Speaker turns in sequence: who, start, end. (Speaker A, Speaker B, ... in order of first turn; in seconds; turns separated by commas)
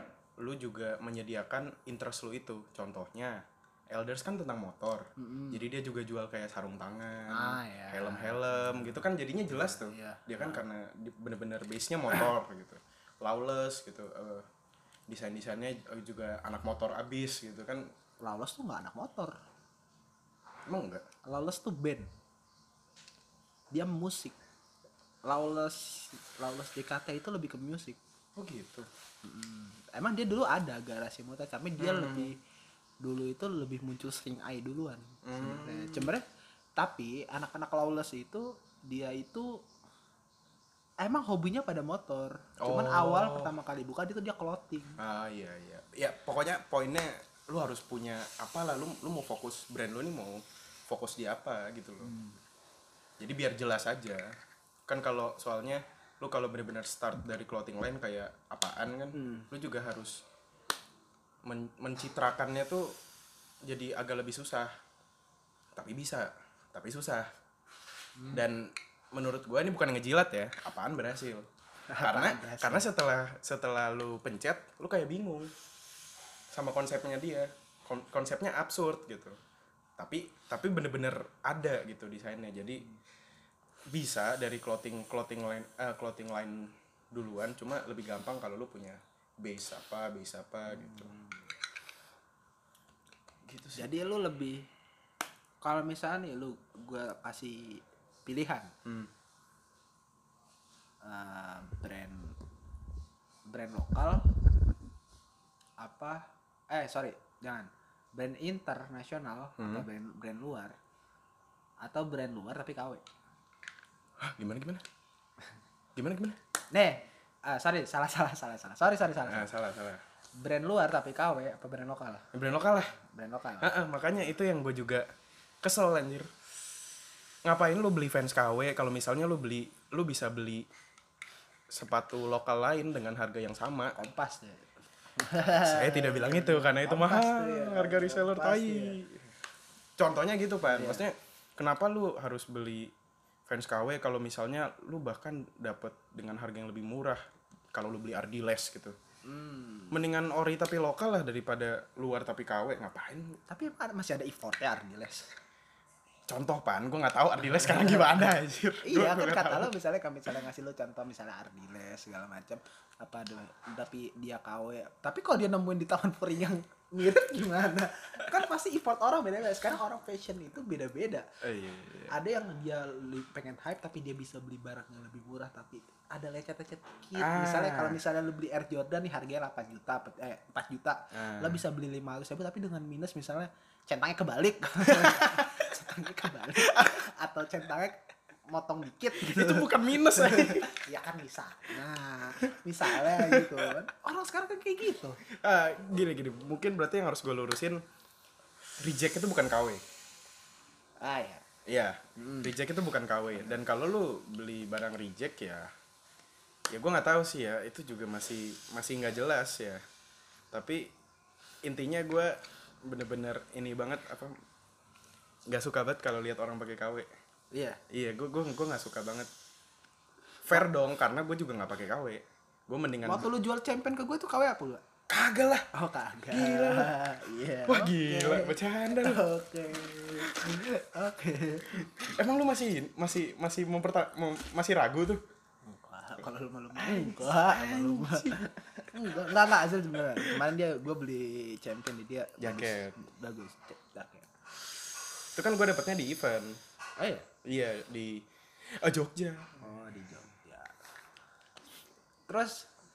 Speaker A: 0.4-14.5, Speaker B: 5.2-5.7, Speaker B: 7.3-9.0, Speaker B: 9.5-10.6, Speaker A: 15.1-17.9, Speaker B: 18.2-19.4, Speaker A: 20.7-21.0, Speaker B: 21.3-22.1, Speaker B: 23.7-24.4, Speaker B: 25.2-28.0, Speaker A: 28.4-28.9, Speaker B: 29.2-32.4, Speaker A: 31.8-32.3, Speaker B: 33.0-36.2, Speaker A: 35.2-36.1, Speaker B: 36.8-39.6, Speaker B: 41.0-45.0, Speaker A: 42.6-43.5, Speaker A: 45.0-52.1, Speaker B: 52.0-52.4, Speaker A: 53.2-54.3, Speaker A: 54.9-60.2, Speaker B: 59.1-59.5, Speaker A: 61.4-63.0, Speaker A: 63.6-64.7, Speaker A: 65.8-67.3, Speaker B: 68.2-68.5, Speaker A: 68.3-71.5, Speaker B: 71.9-72.9, Speaker A: 72.0-75.5, Speaker A: 76.5-79.4, Speaker A: 80.0-82.8, Speaker A: 83.9-91.1, Speaker B: 90.7-91.4, Speaker A: 93.5-93.9, Speaker B: 93.8-94.7, Speaker B: 95.6-98.7, Speaker A: 98.8-99.1, Speaker B: 101.0-102.4, Speaker B: 103.5-104.2, Speaker B: 105.8-110.8, Speaker A: 109.6-109.9, Speaker B: 111.8-113.0, Speaker A: 114.2-114.8, Speaker A: 116.0-116.4, Speaker B: 116.7-119.5, Speaker A: 119.2-120.0, Speaker B: 120.4-122.3, Speaker A: 122.3-123.0, Speaker B: 123.0-123.7, Speaker A: 123.6-125.1, Speaker A: 125.6-126.3, Speaker A: 127.5-130.7, Speaker A: 131.7-133.9, Speaker B: 134.0-139.0, Speaker A: 135.6-139.3, Speaker A: 140.0-142.9, Speaker B: 140.7-141.1, Speaker A: 143.5-147.2, Speaker A: 147.7-149.0, Speaker B: 149.2-150.0, Speaker A: 149.9-153.4, Speaker B: 153.5-155.3, Speaker A: 156.3-159.7, Speaker B: 157.7-158.1, Speaker B: 158.8-171.3, Speaker A: 171.4-172.1, Speaker B: 172.1-195.2, Speaker A: 177.2-178.0, Speaker A: 181.1-181.6, Speaker A: 184.9-185.6, Speaker A: 186.6-187.0, Speaker A: 189.1-190.8, Speaker A: 192.5-193.7, Speaker A: 195.2-197.8, Speaker A: 198.8-199.8, Speaker B: 201.0-201.4, Speaker A: 201.7-205.7, Speaker B: 202.2-202.5, Speaker A: 206.7-209.8, Speaker A: 210.5-210.9, Speaker A: 211.6-214.3, Speaker A: 215.5-217.1, Speaker B: 217.5-217.8, Speaker A: 217.9-219.3, Speaker A: 220.4-223.3, Speaker B: 223.0-224.9, Speaker A: 225.1-225.7, Speaker B: 225.7-232.1, Speaker A: 226.3-226.9, Speaker A: 227.7-229.2, Speaker A: 230.2-230.7, Speaker A: 231.7-235.2, Speaker B: 235.7-244.3, Speaker A: 236.8-238.5, Speaker A: 240.1-240.4, Speaker A: 242.4-242.9, Speaker A: 245.3-246.6, Speaker B: 247.0-247.3, Speaker A: 247.4-249.6, Speaker B: 249.6-250.7, Speaker B: 252.3-252.7